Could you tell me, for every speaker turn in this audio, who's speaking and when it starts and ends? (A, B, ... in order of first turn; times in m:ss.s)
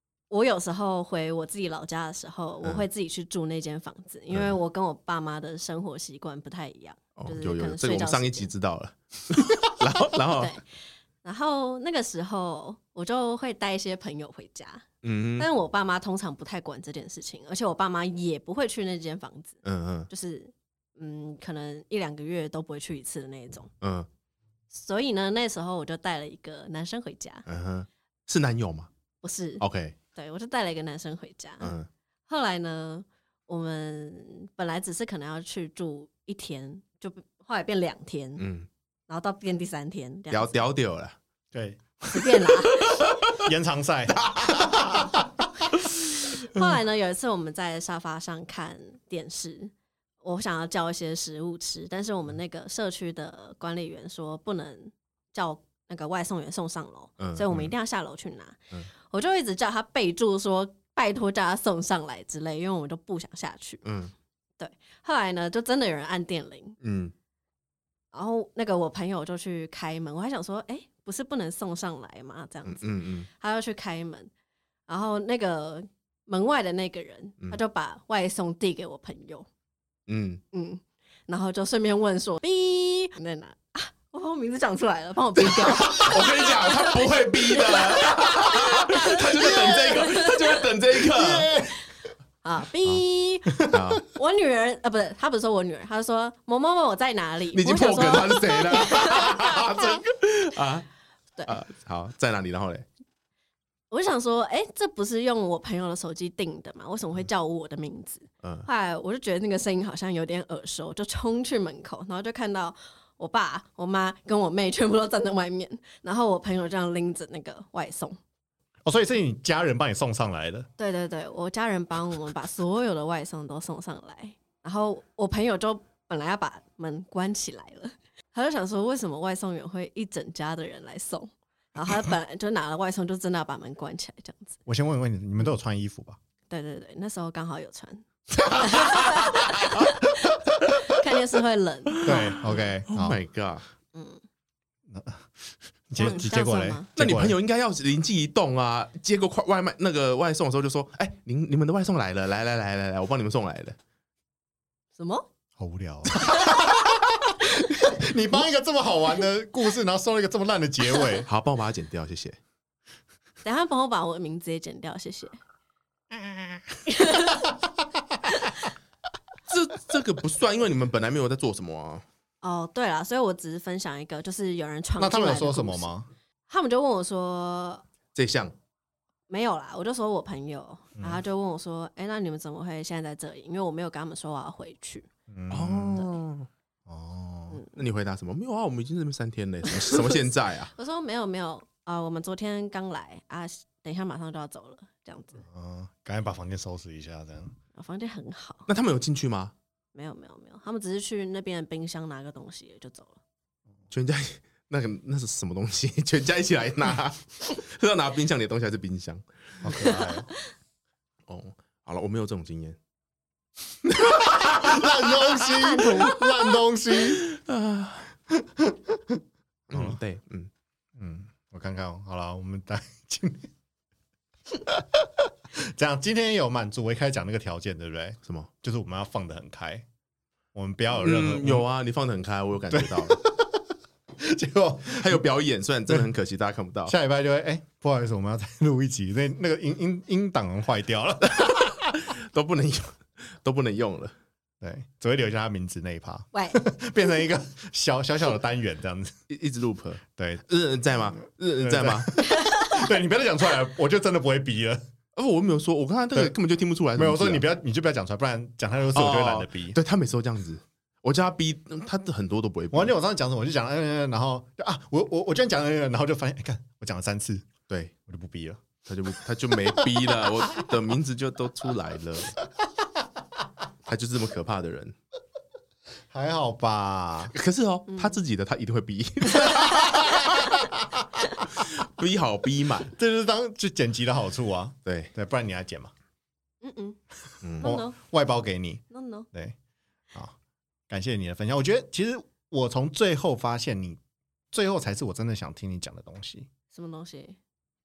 0:00.3-0:08.5 A
0:07.2-0:10.6 B
0:10.3-0:10.6 A
0:11.2-0:14.8 A
0:15.0-0:15.5 B
0:15.4-0:19.6 A
0:19.6-0:20.1 B
0:20.1-0:23.7 A
0:23.8-0:24.1 B
0:24.7-0:27.4 A
0:27.5-0:28.9 B
0:29.2-0:31.8 A
0:29.6-0:30.0 B
0:31.6-0:31.9 B
0:32.3-0:38.4 A
0:38.4-0:38.7 B
0:39.1-0:40.6 A
0:40.3-0:41.2 B
0:41.5-0:41.8 C
0:42.1-0:43.0 A
0:42.8-0:43.4 B
0:43.3-0:45.1 C
0:44.2-0:44.9 B
0:46.4-1:03.8 A
0:57.2-0:57.7 B
1:03.8-1:04.1 B
1:04.6-1:06.8 A
1:06.8-1:07.1 B
1:08.1-1:14.3 A
1:12.7-1:13.3 B
1:14.9-1:19.5 A
1:20.1-1:20.4 B
1:20.5-1:30.6 A
1:25.4-1:31.5 B
1:29.0-1:30.3 C
1:31.0-1:31.8 C
1:32.4-1:40.0 A
1:33.5-1:34.0 C
1:33.7-1:34.0 B
1:37.5-1:40.9 B
1:41.5-1:42.9 B
1:43.9-1:58.2 A
1:48.4-1:48.7 B
1:58.8-2:00.7 C
2:00.8-2:14.6 A
2:14.7-2:16.2 C
2:16.5-2:20.2 A
2:20.8-2:22.6 A
2:22.0-2:22.3 B
2:22.0-2:23.2 C
2:22.9-2:23.6 B
2:23.9-2:24.2 A
2:24.9-2:27.4 C
2:26.0-2:26.9 A
2:27.0-2:33.8 B
2:35.0-2:35.3 A
2:35.6-2:41.3 C
2:41.2-2:42.4 B
2:43.4-2:45.4 A
2:46.2-2:48.5 C
2:46.9-2:47.5 A
2:49.5-2:52.0 B
2:52.4-2:55.9 A
2:55.0-2:56.1 C
2:56.5-2:57.8 A
2:58.2-2:58.5 B
2:59.3-3:05.1 A
3:05.3-3:06.1 C
3:05.5-3:06.5 B
3:06.9-3:07.6 C
3:07.5-3:07.8 A
3:07.7-3:10.7 B
3:09.9-3:10.2 A
3:10.8-3:15.4 A
3:15.4-3:17.6 C
3:17.8-3:18.7 A
3:18.7-3:19.5 B
3:20.0-3:23.2 A
3:23.9-3:29.2 B
3:29.6-3:30.3 C
3:31.3-3:32.8 B
3:33.8-3:36.2 B
3:34.2-3:37.2 C
3:35.7-3:35.9 A
3:37.1-3:38.1 B
3:38.3-3:40.0 C
3:39.7-3:40.5 B
3:41.0-3:43.5 C
3:44.5-3:49.8 C
3:50.5-3:51.7 C
3:51.0-3:53.2 B
3:52.7-3:53.6 C
3:54.2-3:55.2 C
3:54.9-3:57.0 B
3:56.9-4:01.9 C
4:01.3-4:04.1 B
4:04.6-4:09.1 C
4:06.3-4:06.6 A
4:09.3-4:12.2 B
4:10.2-4:10.4 C
4:11.6-4:14.8 C
4:12.2-4:12.8 A
4:15.2-4:17.4 B
4:17.0-4:19.8 C
4:18.9-4:22.9 B
4:22.7-4:27.5 C
4:28.1-4:28.6 C
4:28.9-4:32.4 B
4:33.9-4:35.0 B
4:36.1-4:37.3 C
4:37.3-4:40.5 B
4:37.9-4:38.2 A
4:39.4-4:40.7 C
4:41.5-4:42.9 B
4:43.0-4:45.9 C
4:44.8-4:45.1 B
4:46.6-4:47.0 A
4:47.4-4:47.8 B
4:47.6-4:48.0 A
4:47.6-4:49.6 C
4:48.9-4:49.3 A
4:50.9-4:54.0 C
4:54.5-4:56.5 C
4:56.7-4:57.4 A